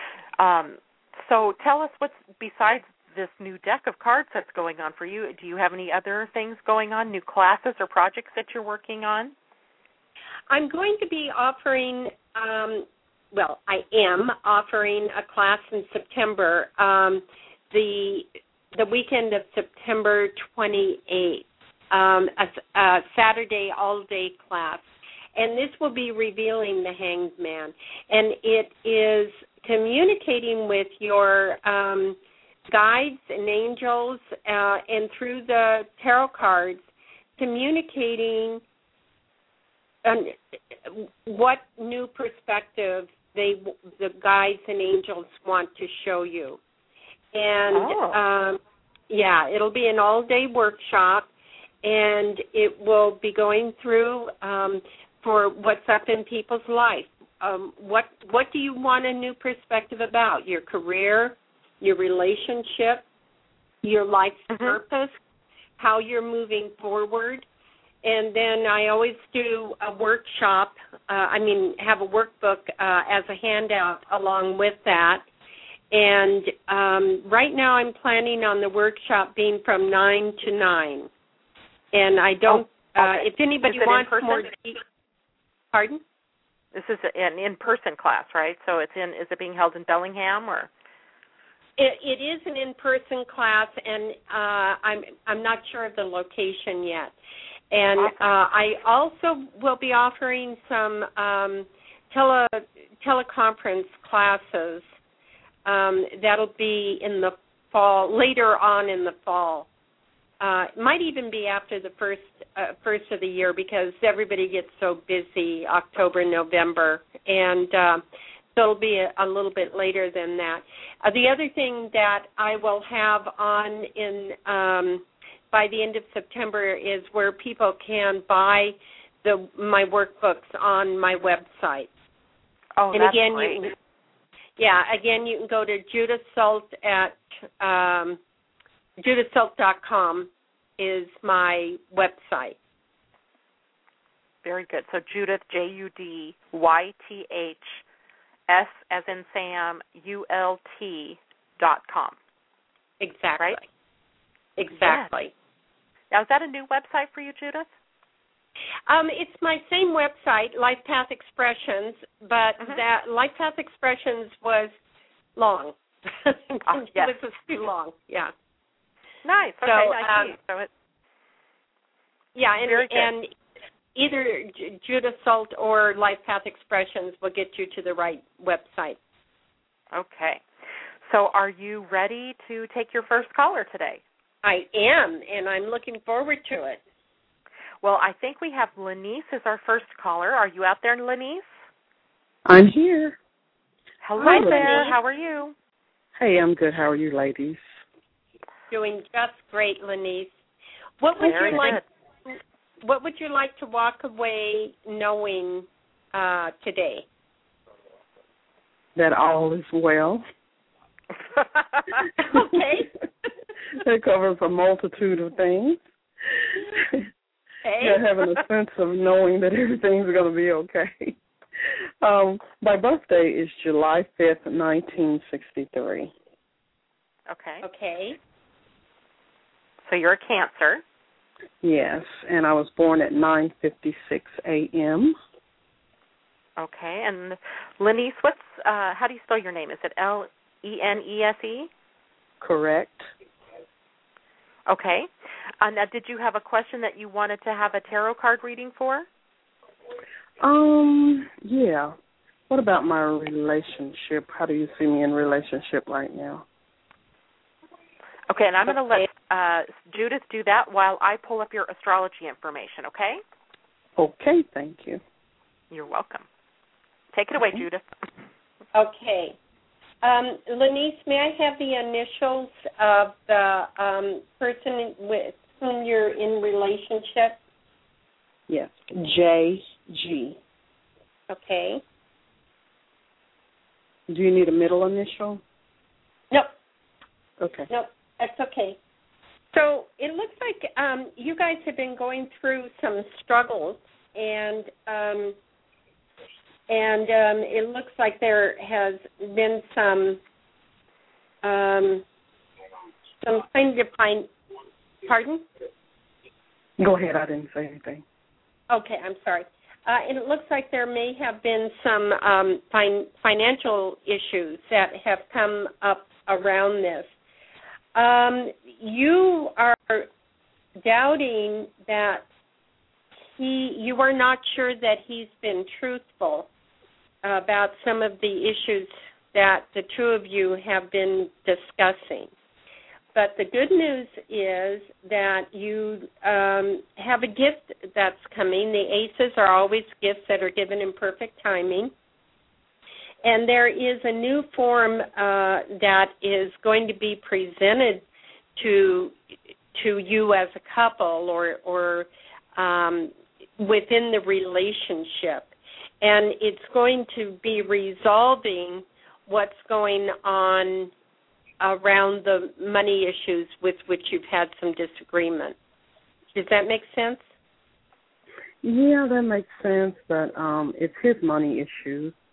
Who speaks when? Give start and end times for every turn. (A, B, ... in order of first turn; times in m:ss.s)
0:00.4-0:09.3 A
0:10.5-0:24.8 B
0:25.4-0:32.2 B
0:32.7-0:36.8 B
0:37.4-0:38.6 B
0:40.0-0:46.6 B
0:47.3-0:51.3 B
0:47.7-0:48.2 A
0:51.8-1:03.0 B
1:03.8-1:05.1 B
1:04.5-1:04.8 A
1:05.8-1:07.4 B
1:08.0-1:15.2 B
1:15.9-1:21.1 B
1:21.9-1:24.8 B
1:22.5-1:24.5 A
1:25.7-1:26.0 B
1:26.7-1:30.7 A
1:31.8-1:37.1 B
1:37.7-1:44.8 B
1:45.6-1:49.7 B
1:50.4-1:58.0 B
1:58.5-2:11.9 B
2:12.8-2:13.6 A
2:12.9-2:13.7 B
2:14.6-2:18.2 B
2:19.0-2:22.6 B
2:24.4-2:27.8 A
2:28.5-2:32.2 A
2:33.0-2:33.6 B
2:34.6-2:35.3 B
2:34.7-2:35.1 A
2:36.1-2:37.7 A
2:38.9-2:44.7 B
2:45.4-2:48.3 B
2:46.7-2:47.1 A
2:49.2-2:50.7 A
2:49.6-2:50.3 B
2:52.3-2:53.3 B
2:52.6-2:53.1 A
2:53.9-2:59.0 B
2:59.9-3:00.4 A
3:01.0-3:04.0 A
3:04.4-3:06.8 B
3:07.8-3:11.4 A
3:12.4-3:13.2 C
3:14.0-3:15.5 A
3:14.2-3:14.8 C
3:14.2-3:14.9 B
3:16.2-3:17.6 C
3:18.7-3:20.3 B
3:21.0-3:27.0 B
3:21.2-3:21.8 A
3:29.0-3:30.2 C
3:31.4-3:31.9 A
3:32.2-3:32.9 B
3:33.8-3:35.8 C
3:36.8-3:37.0 C
3:37.6-3:38.0 B
3:37.8-3:41.2 C
3:42.0-3:46.1 C
3:47.3-3:47.6 A
3:47.6-3:48.2 B
3:49.9-3:50.8 A
3:51.6-3:55.1 C
3:56.6-4:01.7 A
4:02.4-4:03.1 C
4:04.7-4:05.1 A
4:05.6-4:09.1 A
4:10.4-4:11.9 C
4:12.5-4:16.4 C
4:18.3-4:23.2 A
4:18.7-4:19.1 B
4:24.0-4:25.0 C
4:25.7-4:26.2 A
4:27.1-4:27.8 A
4:28.7-4:29.4 B
4:30.0-4:37.4 B
4:38.5-4:40.4 C
4:41.3-4:41.8 B
4:44.1-4:45.4 C
4:47.4-4:47.7 C
4:47.7-4:48.8 B
4:49.5-4:55.4 B
4:56.7-5:00.2 B
5:01.4-5:02.0 B
5:03.2-5:04.3 B
5:05.0-5:05.4 B
5:06.8-5:08.0 C
5:08.7-5:17.1 B
5:17.9-5:20.1 B
5:20.8-5:22.2 B
5:23.4-5:26.5 B
5:27.2-5:32.3 B
5:33.1-5:41.9 B
5:43.2-5:48.0 B
5:48.6-5:49.2 B
5:49.7-6:00.9 B
6:01.6-6:05.6 B
6:06.3-6:07.3 B
6:08.6-6:12.1 C